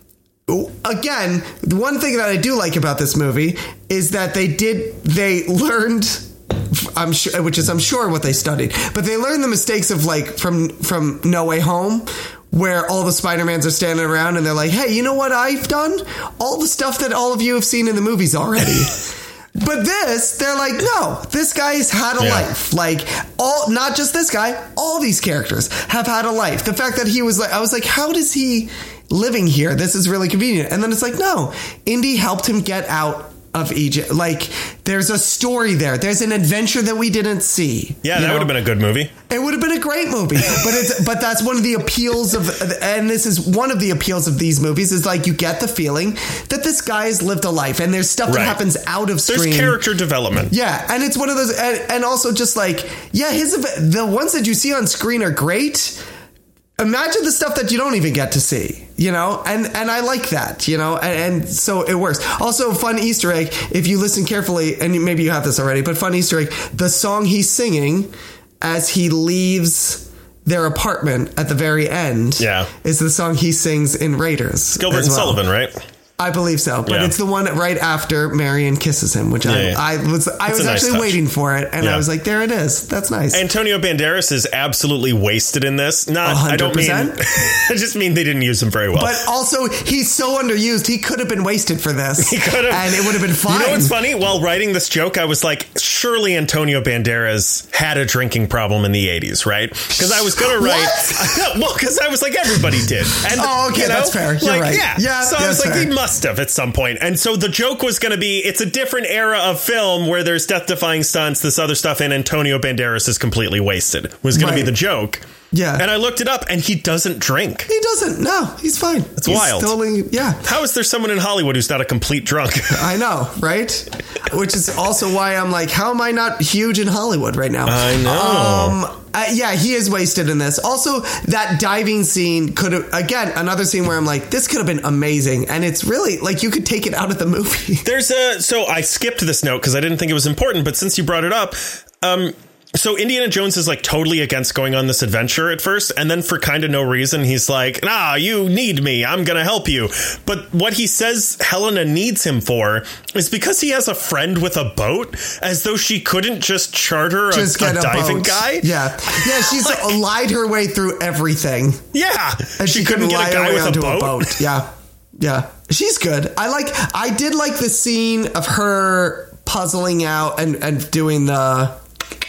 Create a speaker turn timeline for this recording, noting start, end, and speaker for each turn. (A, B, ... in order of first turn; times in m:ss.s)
0:00.5-0:19.0 A
0:19.6-0:38.5 A
0:22.2-0:22.4 B
0:38.0-0:39.1 B
0:39.3-0:49.8 A
0:48.3-0:48.6 B
0:49.2-0:50.5 B
0:50.5-0:56.0 A
0:56.8-1:15.4 A
1:12.4-1:12.7 B
1:14.8-1:15.8 B
1:16.2-1:23.4 A
1:16.8-1:17.1 B
1:19.4-1:19.8 B
1:20.5-1:21.2 B
1:21.8-1:22.0 B
1:23.3-1:29.2 B
1:26.2-1:27.2 A
1:28.9-1:33.9 A
1:32.2-1:55.2 B
1:40.0-1:41.4 A
1:43.2-1:45.9 A
1:54.3-1:54.7 A
1:55.5-1:55.8 A
1:55.8-1:57.7 B
1:57.7-2:00.4 A
1:59.2-1:59.7 B
2:00.4-2:02.9 B
2:02.7-2:17.8 A
2:07.6-2:08.8 B
2:17.8-2:39.9 B
2:37.3-2:41.8 A
2:41.9-2:44.4 B
2:42.6-2:51.8 A